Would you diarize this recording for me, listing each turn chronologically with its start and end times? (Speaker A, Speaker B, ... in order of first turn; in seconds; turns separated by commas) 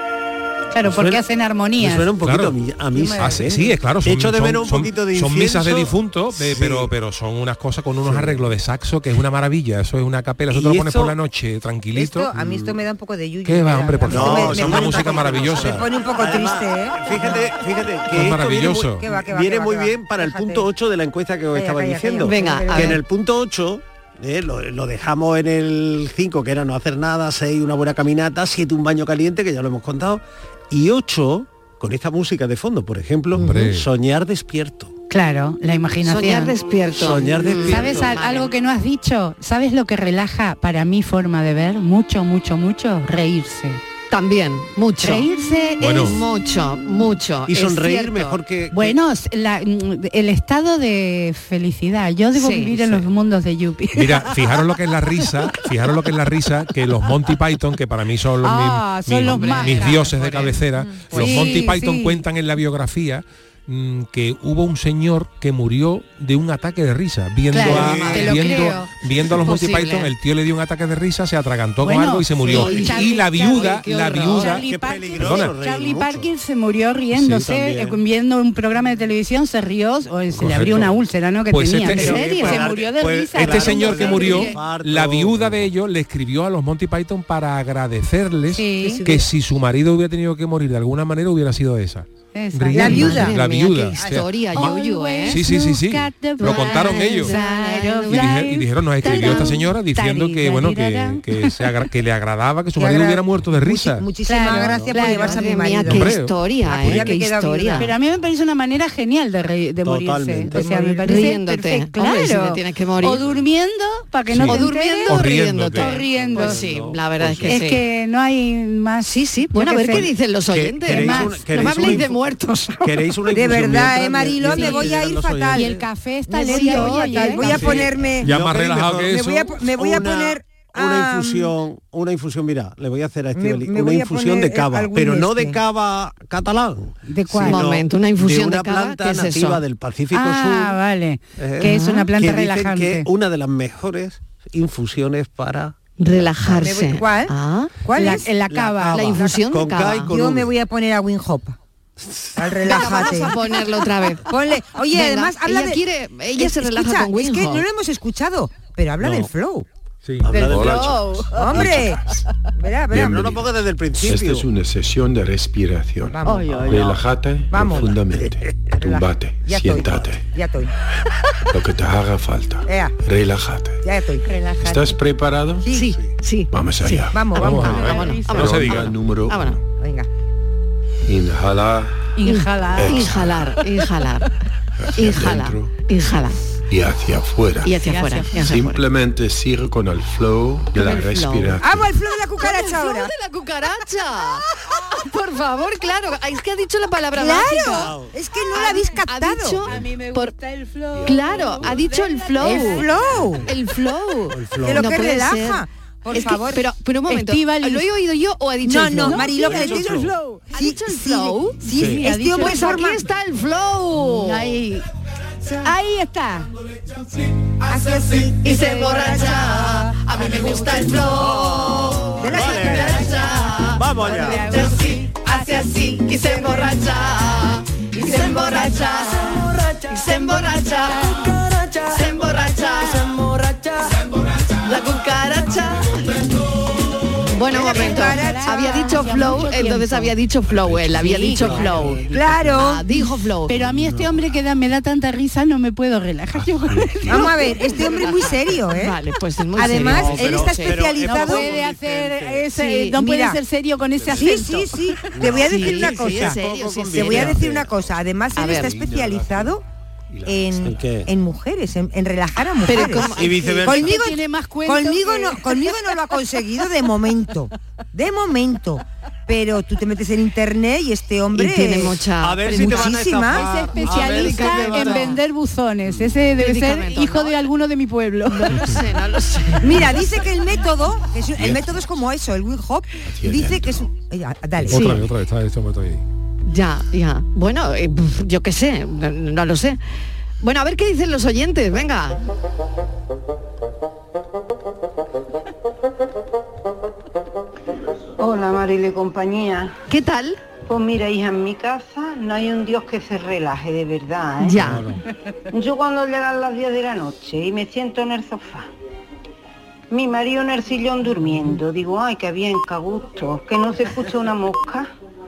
Speaker A: 0.7-2.1, Speaker B: 0.8-1.2, Speaker B: 1.8-6.9, Speaker C: 2.2-2.6, Speaker A: 2.9-3.4, Speaker C: 3.1-12.3, Speaker B: 8.0-8.5, Speaker B: 10.5-11.2, Speaker D: 11.9-17.5, Speaker B: 12.3-12.7, Speaker C: 13.4-15.8, Speaker B: 14.1-34.9, Speaker C: 18.1-19.0, Speaker D: 19.0-20.7, Speaker D: 21.5-23.0, Speaker E: 22.2-23.0, Speaker C: 33.4-33.9, Speaker A: 35.1-36.5, Speaker E: 36.0-38.5, Speaker B: 36.9-38.1, Speaker A: 37.5-43.8, Speaker E: 44.1-48.4, Speaker A: 45.0-46.1, Speaker C: 45.8-46.2, Speaker B: 47.5-49.0, Speaker A: 48.7-54.3, Speaker E: 52.3-53.0, Speaker C: 53.9-75.5, Speaker A: 58.4-60.4, Speaker E: 59.2-61.6, Speaker A: 61.0-62.2, Speaker A: 67.5-68.9, Speaker B: 67.5-68.5, Speaker E: 68.1-70.1, Speaker E: 72.0-74.4, Speaker A: 72.0-84.6, Speaker B: 72.5-76.3, Speaker B: 77.1-78.0, Speaker B: 80.4-80.9, Speaker C: 80.4-80.9, Speaker C: 81.5-82.4, Speaker E: 81.9-82.7, Speaker B: 82.0-85.7, Speaker C: 83.3-94.7, Speaker A: 88.5-89.2, Speaker A: 92.3-93.3, Speaker D: 92.7-93.4, Speaker E: 92.8-95.4, Speaker D: 94.0-94.2, Speaker A: 94.5-101.7, Speaker C: 95.2-97.3, Speaker E: 96.4-98.5, Speaker C: 98.1-104.0, Speaker E: 99.0-99.6, Speaker D: 102.7-106.1, Speaker A: 104.2-105.5, Speaker E: 104.7-107.9, Speaker C: 105.8-107.1, Speaker D: 106.7-107.9, Speaker A: 107.8-116.6, Speaker B: 109.8-111.0, Speaker D: 110.6-111.0, Speaker E: 111.0-113.2, Speaker C: 114.3-116.0, Speaker E: 114.4-117.8, Speaker B: 116.0-117.7, Speaker A: 117.4-120.1, Speaker E: 119.1-123.0, Speaker B: 119.9-122.2, Speaker A: 120.8-122.1, Speaker B: 122.8-125.8, Speaker D: 123.3-125.8, Speaker A: 124.5-124.9, Speaker A: 125.5-127.9, Speaker D: 126.3-128.4, Speaker E: 126.5-127.8, Speaker B: 127.4-140.8, Speaker C: 128.2-129.5, Speaker D: 129.1-131.5, Speaker D: 133.3-135.6, Speaker A: 137.1-137.6, Speaker E: 137.4-139.6, Speaker A: 140.1-143.1, Speaker B: 141.4-146.6, Speaker E: 141.7-142.0, Speaker E: 146.0-148.1, Speaker D: 146.6-148.3, Speaker A: 147.9-149.1, Speaker B: 148.3-150.5, Speaker E: 148.9-150.2, Speaker D: 149.0-149.4, Speaker D: 150.0-151.6, Speaker B: 152.0-152.3, Speaker D: 152.3-153.3, Speaker E: 152.6-154.3, Speaker D: 154.2-159.7, Speaker E: 154.9-157.6, Speaker F: 160.2-161.8, Speaker B: 160.2-161.2, Speaker E: 160.6-161.5, Speaker D: 161.3-163.4, Speaker B: 162.9-164.5, Speaker F: 164.0-170.2, Speaker D: 166.1-166.8, Speaker B: 166.4-167.0, Speaker D: 167.5-168.0, Speaker D: 168.7-170.7, Speaker F: 171.5-173.8, Speaker D: 172.6-172.9, Speaker D: 173.8-174.2, Speaker A: 174.2-175.0, Speaker F: 174.6-175.7, Speaker D: 175.6-175.9, Speaker E: 175.7-179.6, Speaker F: 176.5-177.2, Speaker D: 177.1-177.7, Speaker C: 177.3-178.9, Speaker A: 177.6-178.6, Speaker F: 178.3-179.6, Speaker D: 179.8-180.1, Speaker F: 181.1-181.9, Speaker A: 182.2-183.6, Speaker E: 182.2-184.3, Speaker F: 182.8-183.5, Speaker F: 184.8-185.7, Speaker E: 184.9-186.4, Speaker F: 186.7-187.8, Speaker E: 187.6-188.8, Speaker A: 187.8-188.5, Speaker F: 188.4-191.8, Speaker E: 190.7-191.6, Speaker D: 191.6-193.1, Speaker E: 192.4-197.9, Speaker D: 197.1-199.7, Speaker B: 197.6-198.1, Speaker E: 198.5-200.3, Speaker A: 199.7-203.1, Speaker E: 201.0-202.9, Speaker D: 202.4-203.5, Speaker E: 203.4-209.8, Speaker B: 204.3-204.9, Speaker D: 204.6-206.7, Speaker A: 207.1-207.8, Speaker D: 208.6-210.0, Speaker A: 209.0-210.5, Speaker B: 209.7-210.0, Speaker D: 210.5-213.0, Speaker E: 210.5-214.6, Speaker A: 211.7-212.9, Speaker A: 213.9-214.8, Speaker A: 215.6-216.5, Speaker D: 217.7-219.9, Speaker E: 218.4-233.8, Speaker B: 221.0-223.1, Speaker D: 222.2-223.2, Speaker A: 222.6-226.9, Speaker B: 223.7-224.6, Speaker A: 227.9-229.4, Speaker A: 230.8-231.3, Speaker E: 234.6-236.2, Speaker E: 237.3-243.7, Speaker D: 237.5-239.0, Speaker A: 237.6-240.1, Speaker A: 240.9-242.0, Speaker B: 241.3-242.5, Speaker D: 242.1-242.8, Speaker A: 242.9-247.8, Speaker B: 243.7-244.1, Speaker D: 247.1-249.0, Speaker E: 248.6-251.0, Speaker D: 249.5-251.5, Speaker B: 249.6-252.5, Speaker A: 251.2-255.0, Speaker E: 252.5-252.9, Speaker D: 252.9-253.4, Speaker B: 254.0-254.4, Speaker D: 254.1-256.4, Speaker B: 255.1-257.7, Speaker E: 255.2-257.4, Speaker D: 256.9-259.6, Speaker E: 258.4-258.8, Speaker F: 258.4-259.5, Speaker F: 260.1-260.7, Speaker D: 260.2-273.5, Speaker B: 260.6-261.1, Speaker E: 262.6-263.9, Speaker B: 263.1-263.9, Speaker A: 263.6-265.7, Speaker E: 271.3-275.2, Speaker B: 272.2-275.2, Speaker A: 273.3-278.8, Speaker E: 276.4-277.5, Speaker E: 278.3-280.0, Speaker D: 279.6-284.9, Speaker F: 283.1-283.9, Speaker C: 284.7-286.0, Speaker E: 284.7-285.0, Speaker E: 286.4-289.8, Speaker E: 290.4-292.2, Speaker G: 298.2-299.7, Speaker E: 299.9-300.4, Speaker G: 300.6-304.6, Speaker E: 304.4-304.9, Speaker B: 304.6-305.0, Speaker G: 305.5-308.7, Speaker G: 309.9-314.9